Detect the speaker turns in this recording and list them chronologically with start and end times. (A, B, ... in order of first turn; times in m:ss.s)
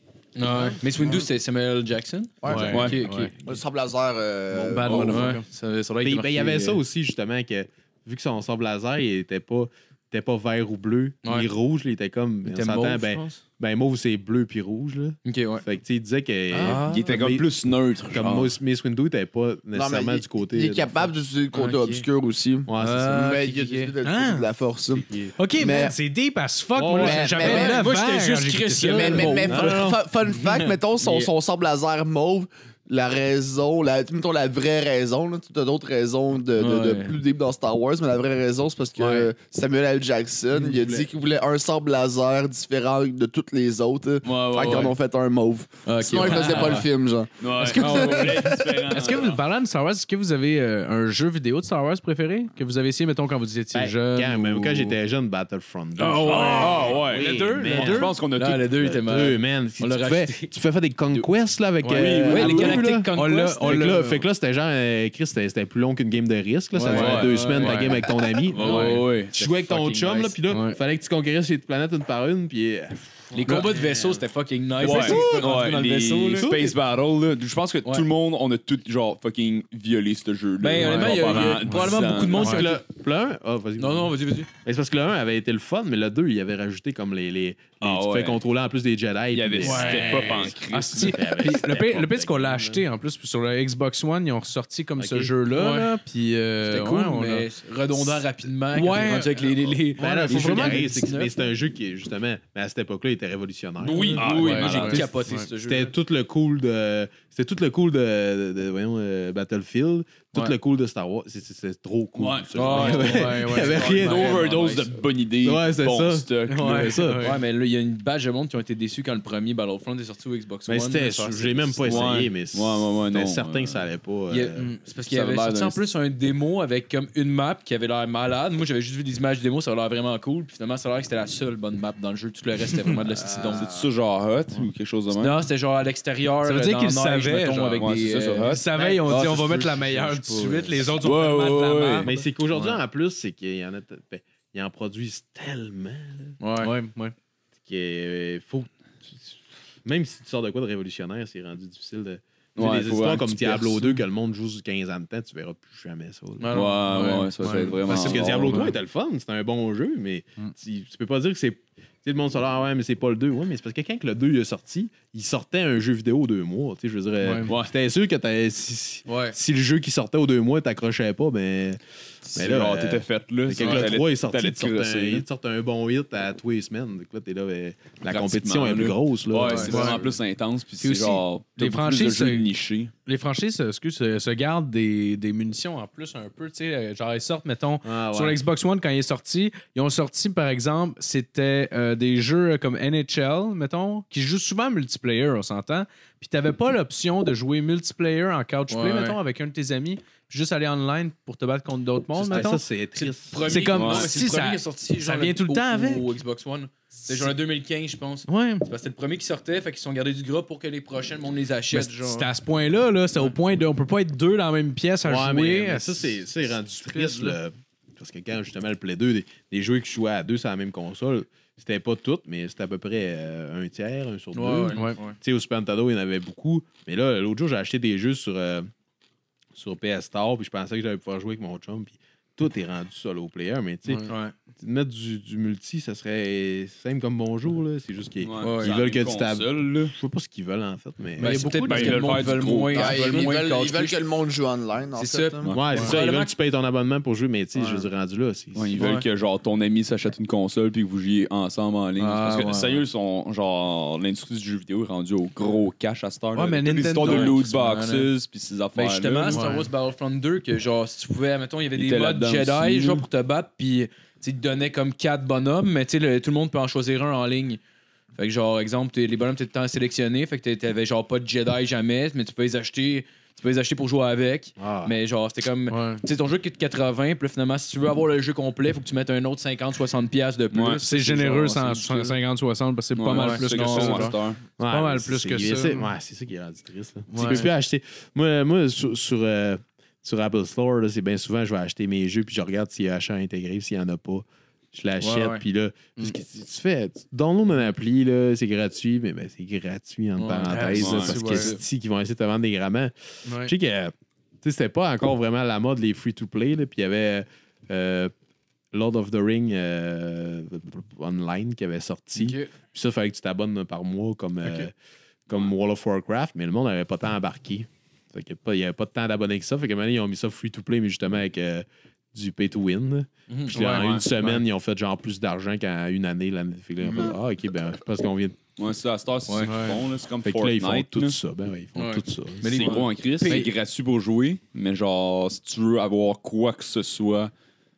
0:00.4-0:03.3 A
0:00.6-0:01.2 B
0:02.4-0:02.9 B
0:02.4-0:03.3 C
0:02.7-0:03.0 D
0:03.4-0:05.3 B
0:04.6-0:05.3 E
0:04.6-0:06.8 A
0:04.9-0:05.4 C
0:06.0-0:17.5 E
0:11.2-0:11.5 A
0:12.4-0:13.4 A
0:15.2-0:15.6 A
0:16.5-0:17.1 A
0:16.6-0:18.5 D
0:18.1-0:21.1 E
0:19.7-0:25.9 B
0:21.5-0:22.0 A
0:22.7-0:23.3 E
0:22.8-0:23.9 A
0:24.0-0:24.5 C
0:24.9-0:25.3 E
0:25.4-0:29.5 C
0:26.8-0:27.3 E
0:26.9-0:27.8 B
0:27.3-0:29.8 A
0:28.9-0:48.8 B
0:29.5-0:30.0 E
0:31.0-0:31.3 A
0:36.6-0:37.2 A
0:39.0-0:39.3 A
0:40.6-0:41.0 A
0:44.2-0:44.9 D
0:44.6-0:44.9 A
0:45.8-0:46.9 A
0:47.4-0:49.4 D
0:47.8-0:55.0 C
0:53.7-0:58.2 E
0:56.0-0:58.1 C
0:56.0-0:57.0 A
0:56.6-0:58.9 D
0:58.3-1:00.5 A
0:58.8-1:14.2 E
1:01.8-1:04.2 C
1:01.9-1:02.8 D
1:02.3-1:03.9 A
1:06.8-1:07.9 C
1:06.8-1:08.0 A
1:06.9-1:07.3 D
1:08.5-1:10.3 D
1:08.6-1:09.2 A
1:08.6-1:09.0 C
1:10.5-1:10.8 C
1:13.3-1:16.5 A
1:13.4-1:13.8 C
1:14.8-1:22.6 D
1:14.8-1:15.4 E
1:16.4-1:16.8 E
1:20.6-1:22.8 A
1:20.8-1:22.6 C
1:22.4-1:32.8 E
1:23.8-1:24.5 A
1:27.8-1:28.4 D
1:29.3-1:31.4 D
1:29.6-1:40.8 C
1:35.0-1:35.3 E
1:35.5-1:35.9 A
1:36.6-1:41.3 A
1:39.6-1:44.3 E
1:43.8-1:45.9 A
1:43.9-1:45.0 D
1:43.9-1:45.5 C
1:44.8-1:54.6 E
1:52.1-1:56.9 D
1:52.5-1:54.9 A
1:52.8-1:54.3 C
1:55.4-1:57.3 E
1:56.5-1:57.4 C
1:57.2-2:02.1 A
2:00.7-2:04.7 E
2:01.8-2:03.9 D
2:04.3-2:13.7 A
2:05.1-2:05.8 D
2:13.2-2:15.4 D
2:15.1-2:20.8 A
2:16.4-2:17.9 C
2:17.8-2:18.7 D
2:18.4-2:22.2 C
2:21.0-2:22.1 D
2:22.0-2:26.4 E
2:22.5-2:22.8 A
2:26.4-2:26.7 A
2:26.6-2:27.1 C
2:27.6-2:36.7 E
2:32.6-2:34.0 D
2:36.4-2:37.3 A
2:36.5-2:38.7 D
2:36.9-2:38.7 C
2:37.8-2:51.8 E
2:37.9-2:38.6 A
2:47.2-2:47.5 C
2:47.4-2:47.7 D
2:49.1-2:49.4 A
2:52.2-2:55.2 D
2:52.3-3:00.1 E
2:58.1-3:02.9 D
2:59.4-2:59.8 A
2:59.6-3:00.0 C
3:00.8-3:02.5 C
3:03.0-3:26.1 C
3:07.8-3:08.4 E
3:18.7-3:19.2 A
3:22.2-3:23.6 E
3:23.1-3:32.3 A
3:23.7-3:24.1 D
3:28.3-3:28.6 C
3:31.7-3:36.2 C
3:35.0-3:48.7 E
3:36.8-3:37.4 C
3:44.3-3:45.2 A
3:49.5-4:02.1 E
3:54.0-3:54.3 A
3:58.2-3:59.9 D
3:58.4-3:58.7 A
4:01.2-4:04.0 A
4:01.4-4:03.3 D
4:02.7-4:05.6 B
4:05.0-4:06.3 A
4:05.5-4:08.8 E
4:07.5-4:07.9 B
4:08.5-4:19.6 D
4:08.8-4:09.0 A
4:12.0-4:12.8 A
4:16.3-4:17.4 C
4:17.0-4:18.1 A
4:18.7-4:27.6 A
4:19.3-4:19.7 C
4:21.7-4:23.0 D
4:28.2-4:42.2 A
4:34.6-4:34.9 E
4:35.7-4:36.0 C
4:40.5-4:40.8 D
4:40.8-4:45.9 C
4:42.9-4:44.4 D
4:43.1-4:44.2 A
4:44.6-5:08.1 E
4:47.1-4:47.5 C
4:47.2-4:47.4 A
4:55.0-4:55.4 A
5:00.2-5:01.6 A
5:00.5-5:01.5 C
5:00.7-5:01.5 D
5:03.2-5:03.5 C
5:08.7-5:14.7 E
5:12.2-5:12.5 A
5:15.3-5:28.4 E
5:23.3-5:24.2 A
5:23.5-5:24.4 C
5:23.7-5:24.0 D
5:28.6-5:31.2 D
5:29.3-5:29.7 A
5:29.4-5:29.8 C
5:30.2-5:32.8 E
5:31.8-5:33.5 A
5:32.5-5:37.3 D